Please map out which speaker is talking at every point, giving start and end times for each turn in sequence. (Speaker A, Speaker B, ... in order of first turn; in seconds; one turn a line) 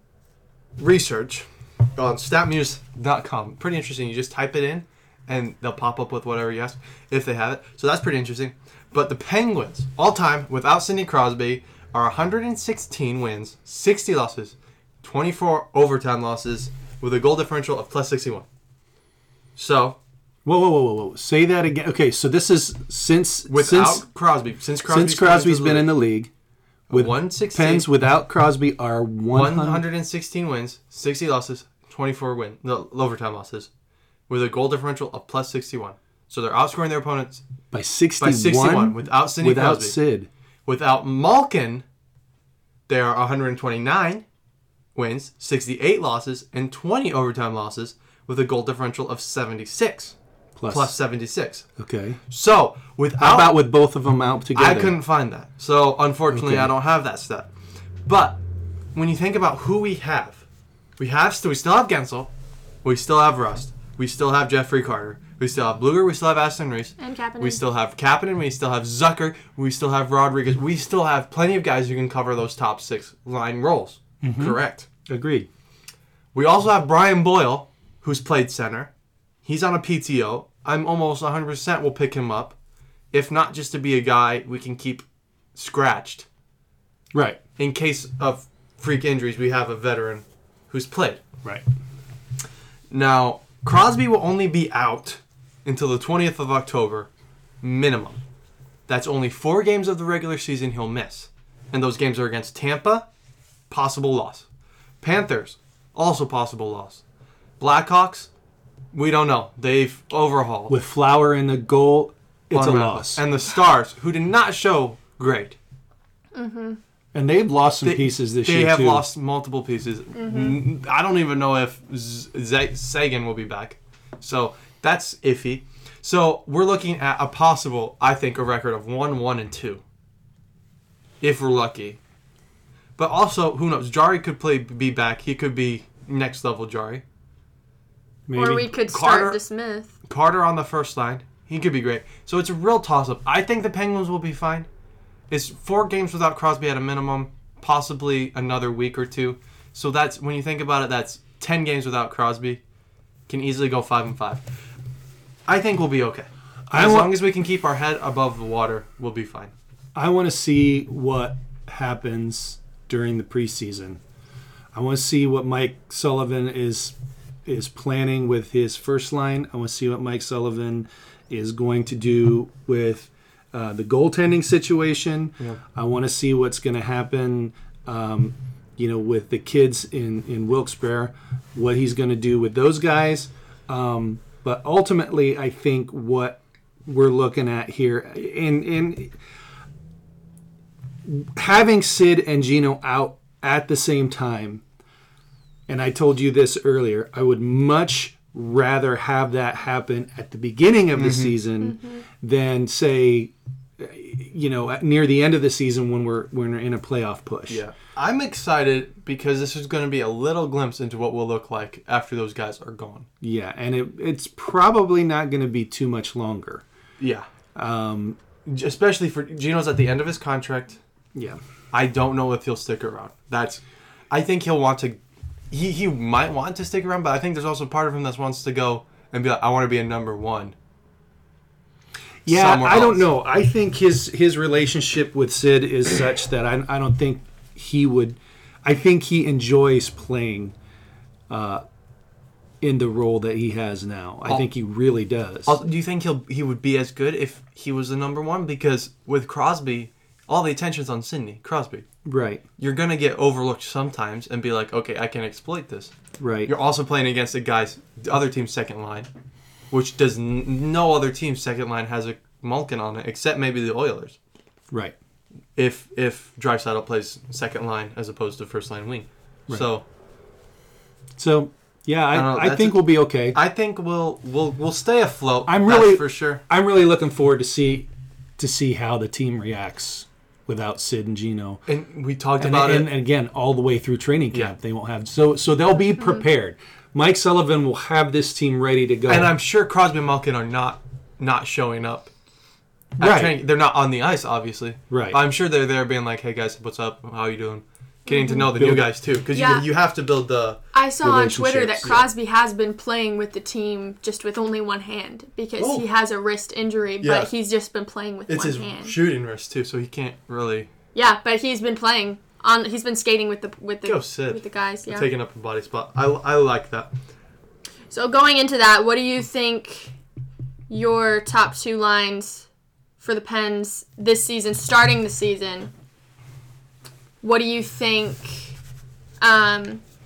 Speaker A: 0.8-18.5
Speaker A: 19.6-20.0
Speaker B: 20.4-24.0
Speaker A: 23.5-25.9
Speaker B: 24.9-26.3
Speaker A: 26.9-27.9
Speaker B: 26.9-29.8
Speaker A: 29.3-33.7
Speaker A: 34.3-37.4
Speaker B: 37.7-40.3
Speaker A: 38.2-40.0
Speaker A: 40.7-41.8
Speaker A: 42.9-44.2
Speaker A: 45.0-50.1
Speaker B: 50.6-51.0
Speaker A: 50.7-51.7
Speaker B: 51.8-52.2
Speaker A: 52.3-53.6
Speaker B: 53.2-55.0
Speaker A: 54.5-57.5
Speaker B: 56.3-56.7
Speaker A: 58.0-58.4
Speaker A: 58.9-60.4
Speaker A: 61.0-62.3
Speaker A: 62.8-74.9
Speaker C: 67.0-67.6
Speaker B: 74.2-75.5
Speaker A: 76.3-78.9
Speaker A: 79.5-82.5
Speaker A: 83.1-85.0
Speaker A: 85.5-86.3
Speaker B: 87.1-87.4
Speaker A: 87.6-91.2
Speaker A: 92.9-97.1
Speaker A: 97.6-98.2
Speaker A: 98.9-103.1
Speaker A: 103.7-104.5
Speaker A: 105.0-107.0
Speaker A: 107.6-108.3
Speaker A: 108.9-110.8
Speaker B: 110.7-113.2
Speaker A: 112.5-115.6
Speaker C: 116.3-116.8
Speaker B: 117.1-119.0
Speaker A: 117.8-129.8
Speaker C: 120.2-120.6
Speaker A: 131.2-132.0
Speaker A: 133.0-137.0
Speaker B: 138.3-138.7
Speaker C: 138.3-139.9
Speaker A: 138.9-139.4
Speaker A: 140.1-144.7
Speaker A: 145.3-152.6
Speaker A: 153.3-154.5
Speaker A: 155.5-159.5
Speaker B: 156.7-157.2
Speaker B: 159.9-164.0
Speaker B: 164.7-166.9
Speaker B: 167.5-189.1
Speaker B: 191.1-194.6
Speaker B: 195.7-207.6
Speaker A: 200.9-201.4
Speaker A: 207.5-213.1
Speaker B: 213.2-216.6
Speaker A: 217.0-217.3
Speaker B: 217.6-218.2
Speaker A: 218.5-220.8
Speaker B: 221.2-221.4
Speaker A: 221.7-225.0
Speaker A: 225.5-230.6
Speaker A: 232.3-233.1
Speaker B: 232.3-240.6
Speaker B: 241.3-241.6
Speaker B: 242.6-245.6
Speaker A: 245.5-251.8
Speaker B: 252.1-252.4
Speaker A: 252.6-255.9
Speaker B: 256.2-256.5
Speaker A: 256.5-259.1
Speaker A: 259.7-264.2
Speaker A: 265.6-269.8
Speaker B: 271.2-273.4
Speaker A: 272.1-276.4
Speaker B: 275.5-281.6
Speaker A: 281.7-282.9
Speaker B: 282.4-289.3
Speaker A: 289.1-292.1
Speaker B: 293.0-293.4
Speaker A: 293.0-300.6
Speaker B: 294.9-295.2
Speaker C: 298.1-298.5
Speaker B: 298.5-298.9
Speaker C: 299.3-299.7
Speaker C: 300.7-309.0
Speaker B: 301.0-302.0
Speaker A: 305.6-305.9
Speaker A: 307.0-307.3
Speaker A: 308.3-310.7
Speaker C: 310.9-315.1
Speaker A: 313.9-316.9
Speaker C: 317.9-319.9
Speaker C: 320.7-322.5
Speaker C: 323.0-325.7
Speaker C: 327.2-328.6
Speaker C: 329.2-329.8